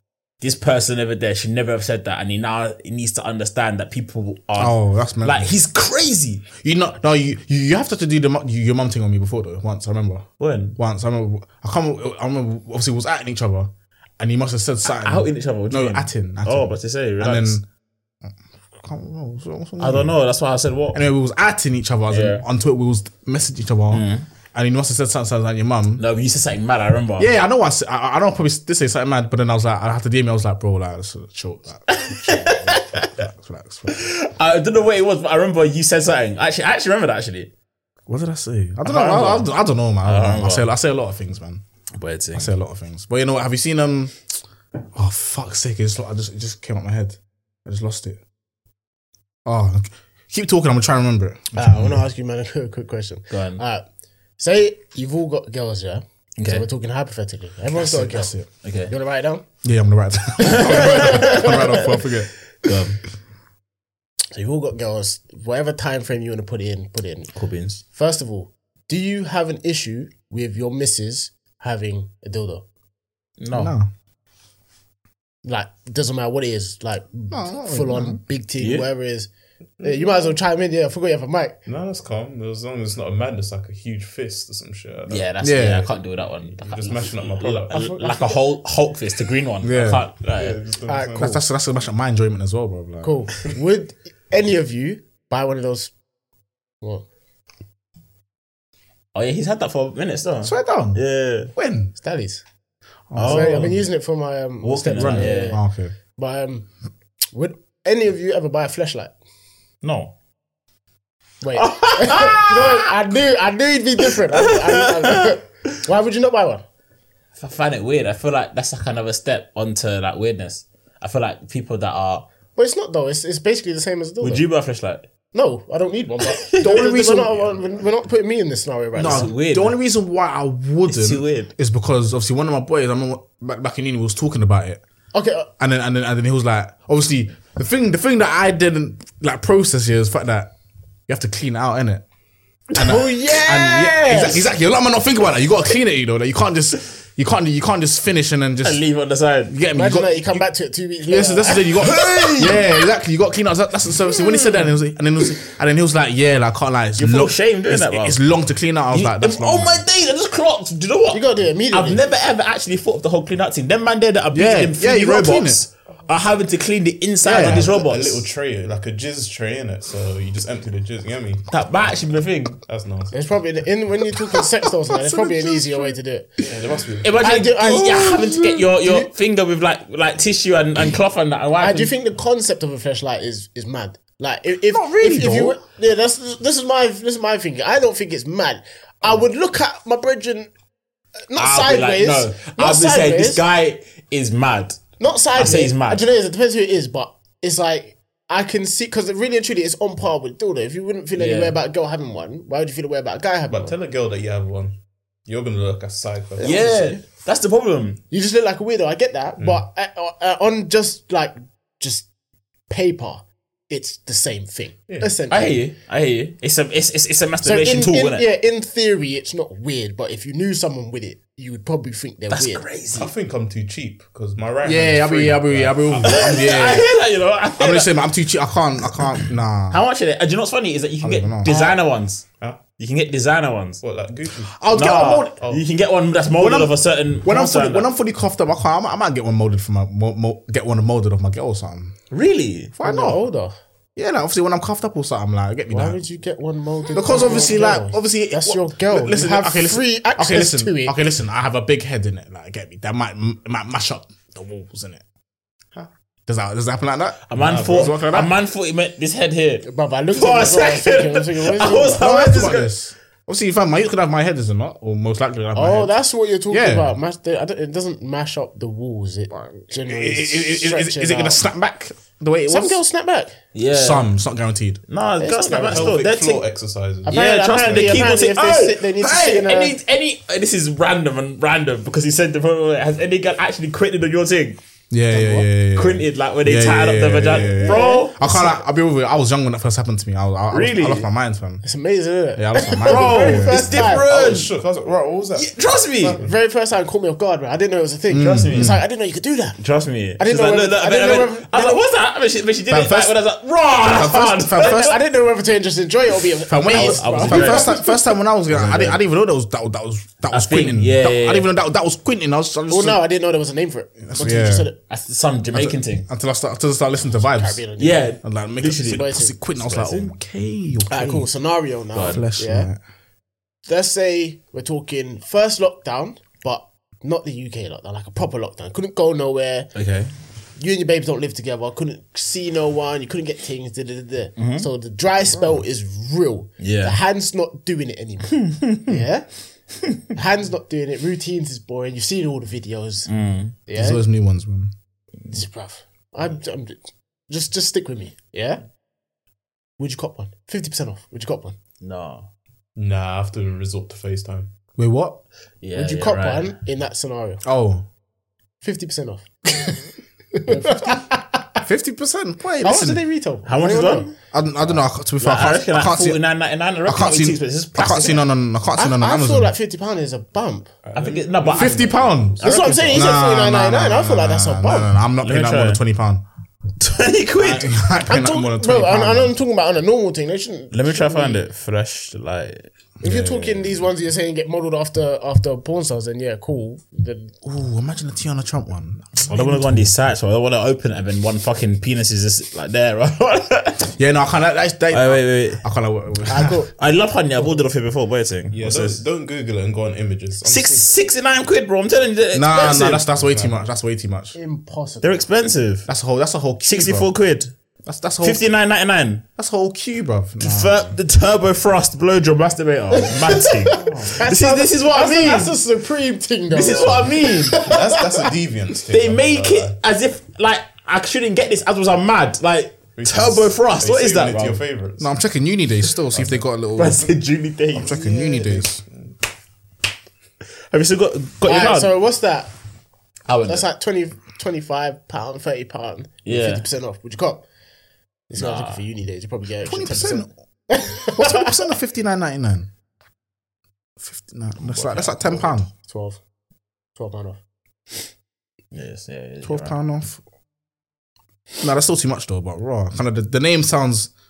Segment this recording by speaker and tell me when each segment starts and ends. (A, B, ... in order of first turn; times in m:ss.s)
0:00.4-0:06.5 A
0:04.6-0:05.5 B
0:06.6-0:17.6 B
0:10.4-0:10.8 A
0:14.8-0:17.6 A
0:18.8-0:20.1 B
0:19.8-0:21.0 A
0:20.9-0:26.0 B
0:22.1-0:22.4 A
0:23.9-0:24.2 A
0:26.0-0:27.3 A
0:27.2-0:34.0 B
0:31.9-0:33.2 A
0:33.9-0:37.5 A
0:38.1-0:41.6 B
0:38.8-0:39.5 A
0:40.0-0:40.7 A
0:42.0-0:42.5 A
0:42.4-0:44.2 B
0:45.0-0:48.2 B
0:49.4-0:52.0 B
0:51.6-0:53.8 C
0:53.3-0:53.6 A
0:54.4-0:58.4 C
0:56.4-0:56.7 A
0:57.7-0:58.5 B
0:58.6-0:58.9 A
0:58.9-0:59.4 C
0:59.6-1:02.3 B
1:00.4-1:01.8 C
1:00.4-1:01.9 A
1:02.6-1:03.0 A
1:04.3-1:07.3 C
1:07.4-1:07.8 A
1:07.9-1:12.6 C
1:13.4-1:13.7 A
1:13.5-1:13.9 B
1:15.4-1:19.3 C
1:17.3-1:18.2 B
1:18.6-1:18.9 A
1:19.8-1:20.3 D
1:19.8-1:21.6 C
1:21.7-1:25.3 D
1:25.1-1:30.6 A
1:25.4-1:25.9 B
1:26.5-1:27.9 D
1:27.7-1:28.4 C
1:29.6-1:30.1 B
1:30.3-1:31.3 D
1:30.9-1:31.4 C
1:31.2-1:33.1 B
1:33.0-1:35.9 C
1:39.1-1:41.5 A
1:40.4-1:41.0 B
1:41.5-1:41.9 B
1:42.0-1:42.4 C
1:43.1-1:43.7 B
1:43.2-1:43.8 A
1:43.2-1:45.6 C
1:44.6-1:45.6 A
1:45.0-1:45.9 B
1:46.2-1:46.7 C
1:47.3-1:49.1 C
1:49.8-1:50.1 A
1:51.4-1:56.6 C
1:51.5-1:52.9 A
1:54.3-1:55.3 A
1:57.4-2:02.3 A
2:02.6-2:04.4 C
2:04.2-2:05.0 A
2:05.3-2:09.3 C
2:06.3-2:06.9 A
2:06.6-2:07.6 B
2:09.0-2:14.8 B
2:09.0-2:09.8 A
2:10.9-2:11.5 A
2:15.1-2:15.5 C
2:15.6-2:20.5 B
2:21.1-2:22.0 B
2:22.8-2:24.5 C
2:22.8-2:28.8 B
2:28.6-2:29.5 A
2:29.5-2:30.5 B
2:29.7-2:32.5 C
2:31.1-2:39.8 B
2:31.7-2:32.7 A
2:37.0-2:38.2 A
2:38.9-2:48.2 A
2:41.1-2:42.0 C
2:44.3-2:45.6 B
2:47.2-2:47.7 B
2:47.3-2:51.4 D
2:51.5-2:52.6 A
2:52.6-2:53.2 D
2:53.1-2:56.4 C
2:54.3-2:56.0 B
2:56.4-2:57.2 D
2:57.0-3:01.9 A
2:57.2-2:59.1 C
3:01.6-3:10.5 C
3:04.7-3:05.6 B
3:11.3-3:13.4 C
3:11.4-3:14.8 A
3:15.0-3:23.7 C
3:15.3-3:16.0 A
3:21.2-3:21.6 A
3:23.5-3:26.6 D
3:26.4-3:27.0 C
3:26.4-3:28.0 A
3:28.1-3:32.1 C
3:29.4-3:29.6 D
3:32.7-3:35.6 C
3:35.3-3:38.3 A
3:37.4-3:42.6 C
3:42.3-3:43.1 A
3:42.9-3:46.5 D
3:44.6-3:46.9 B
3:46.0-3:48.0 A
3:47.6-3:49.8 B
3:49.7-3:52.2 A
3:51.0-3:51.6 B
3:51.5-3:51.8 C
3:52.8-3:53.8 A
3:53.8-3:54.6 D
3:54.5-3:55.3 B
3:54.7-3:57.9 A
3:56.3-4:01.9 B
4:02.1-4:02.7 A
4:02.8-4:03.2 B
4:02.8-4:03.6 C
4:04.0-4:06.0 B
4:05.7-4:11.0 C
4:06.9-4:15.0 B
4:16.3-4:18.3 B
4:17.3-4:22.7 A
4:17.4-4:18.0 D
4:19.6-4:22.5 C
4:22.0-4:25.9 B
4:25.6-4:31.4 C
4:26.5-4:26.9 B
4:29.4-4:32.8 B
4:32.5-4:33.4 C
4:33.5-4:34.1 A
4:33.7-4:34.8 B
4:34.9-4:36.4 A
4:35.2-4:36.0 C
4:35.7-4:38.1 D
4:37.0-4:39.8 C
4:37.0-4:44.6 A
4:44.9-4:51.6 B
4:45.2-4:48.5 A
4:47.5-4:48.1 C
4:50.5-4:51.1 A
4:51.6-4:54.1 C
4:52.4-4:53.6 B
4:52.8-4:54.5 A
4:53.6-4:56.3 D
4:55.3-4:56.2 A
4:56.2-4:59.6 C
4:58.1-4:58.8 B
4:58.2-4:58.8 A
4:59.6-5:04.9 A
5:00.2-5:01.8 C
5:02.7-5:03.2 B
5:03.8-5:05.0 B
5:04.6-5:07.9 C
5:06.5-5:13.0 B
5:06.7-5:09.0 A
5:10.3-5:11.5 A
5:12.7-5:14.8 C
5:14.0-5:14.7 B
5:14.9-5:16.1 A
5:15.5-5:17.6 B
5:17.2-5:18.2 C
5:17.8-5:20.1 A
5:18.2-5:21.3 B
5:18.9-5:19.4 C
5:20.9-5:22.7 C
5:21.9-5:22.2 A
5:22.0-5:22.8 B
5:23.7-5:29.7 C
5:29.8-5:30.1 A
5:30.6-5:39.3 C
5:34.4-5:34.7 A
5:36.6-5:37.0 A
5:38.4-5:39.0 A
5:40.1-5:43.1 C
5:43.1-5:43.6 A
5:43.7-5:44.0 C
5:43.8-5:44.7 B
5:45.3-5:48.6 C
5:49.8-5:51.6 C
5:51.8-5:52.3 A
5:52.8-5:54.5 D
5:54.8-5:55.2 B
5:55.6-5:56.5 A
5:55.8-5:57.4 C
5:57.4-5:57.9 B
5:58.6-6:01.6 C
6:00.6-6:01.0 B
6:01.6-6:03.0 B
6:02.6-6:04.1 C
6:03.4-6:04.1 A
6:04.3-6:06.2 B
6:05.2-6:08.2 A
6:06.8-6:09.5 B
6:08.8-6:10.7 C
6:10.8-6:12.9 D
6:11.0-6:13.2 A
6:11.5-6:16.2 B
6:12.4-6:15.0 C
6:15.2-6:15.8 A
6:16.8-6:17.7 A
6:17.4-6:19.3 B
6:18.1-6:21.4 C
6:20.7-6:22.7 A
6:23.0-6:27.3 C
6:23.0-6:23.5 B
6:27.4-6:29.9 B
6:29.3-6:33.9 A
6:34.0-6:36.6 B
6:34.9-6:35.6 A
6:36.3-6:36.7 C
6:36.8-6:39.0 A
6:38.5-6:40.9 D
6:40.4-6:43.1 A
6:42.3-6:44.4 B
6:43.1-6:43.6 D
6:44.4-6:45.2 C
6:45.0-6:45.9 A
6:45.9-6:47.1 B
6:46.6-6:47.5 A
6:47.9-6:48.5 B
6:48.2-6:49.2 A
6:49.4-6:51.0 B
6:50.4-6:55.6 A
6:52.9-6:58.3 C
6:53.8-6:54.1 D
6:56.5-6:57.7 A
6:57.5-6:59.8 D
6:58.9-7:04.6 A
7:03.0-7:05.1 D
7:05.0-7:07.1 B
7:06.1-7:06.4 D
7:06.8-7:07.9 A
7:07.7-7:08.8 B
7:07.9-7:09.2 D
7:08.0-7:08.6 C
7:10.7-7:11.9 A
7:11.4-7:12.5 C
7:13.3-7:13.7 A
7:13.5-7:17.4 C
7:16.2-7:16.6 A
7:18.3-7:21.6 C
7:18.4-7:18.8 A
7:19.6-7:20.3 B
7:21.0-7:22.7 B
7:24.0-7:25.7 B
7:24.7-7:25.6 D
7:25.7-7:26.2 C
7:27.0-7:27.4 C
7:28.7-7:29.8 A
7:29.4-7:30.2 B
7:31.6-7:34.1 B